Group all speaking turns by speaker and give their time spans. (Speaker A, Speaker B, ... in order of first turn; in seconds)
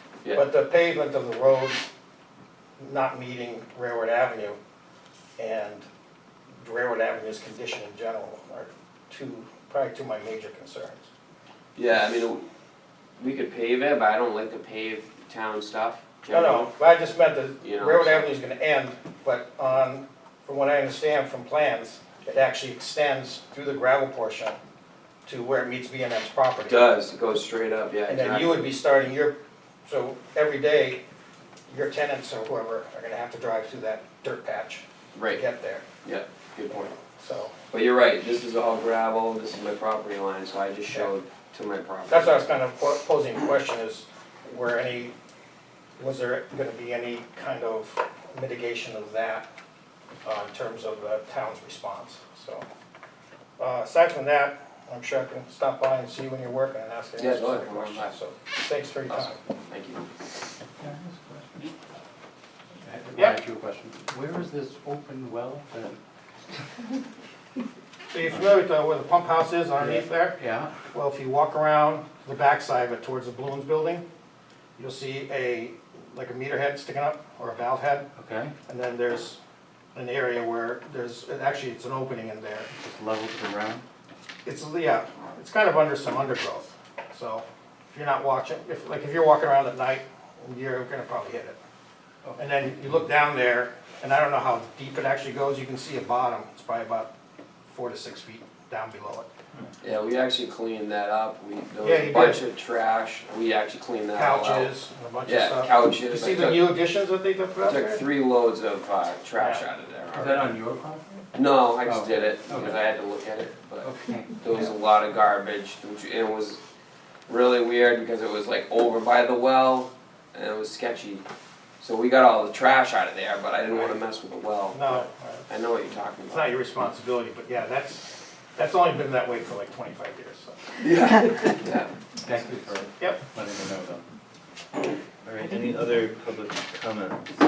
Speaker A: 0.3-1.9, 2.8-4.6, 5.4-5.9, 6.6-11.1, 16.3-24.6, 25.2-26.8, 28.1-31.0, 31.7-35.8, 37.1-37.5, 42.1-45.1, 46.0-49.5, 50.2-52.6, 53.6-59.4, 68.1-70.3, 70.9-74.0, 74.8-78.1, 78.7-79.4, 79.9-82.7, 84.4-91.6, 92.4-97.1, 97.7-99.3, 101.8-102.4, 104.1-108.0, 109.4-109.6, 124.7-125.5, 126.3-130.6
Speaker B: 11.8-12.4, 13.2-16.7, 17.6-18.3, 26.6-28.7, 35.1-35.4, 36.0-36.9, 37.7-42.4, 57.2-58.1, 59.1-60.1, 99.8-104.7, 105.2-106.6, 107.6-110.5, 111.3-116.6, 117.3-121.2, 121.8-126.5, 130.8-131.9
Speaker C: 60.8-61.6, 62.8-66.0, 69.8-70.7, 78.2-78.5, 82.7-83.8, 110.1-111.2, 111.8-112.8, 113.8-114.5, 132.2-134.0
Speaker D: 135.2-137.2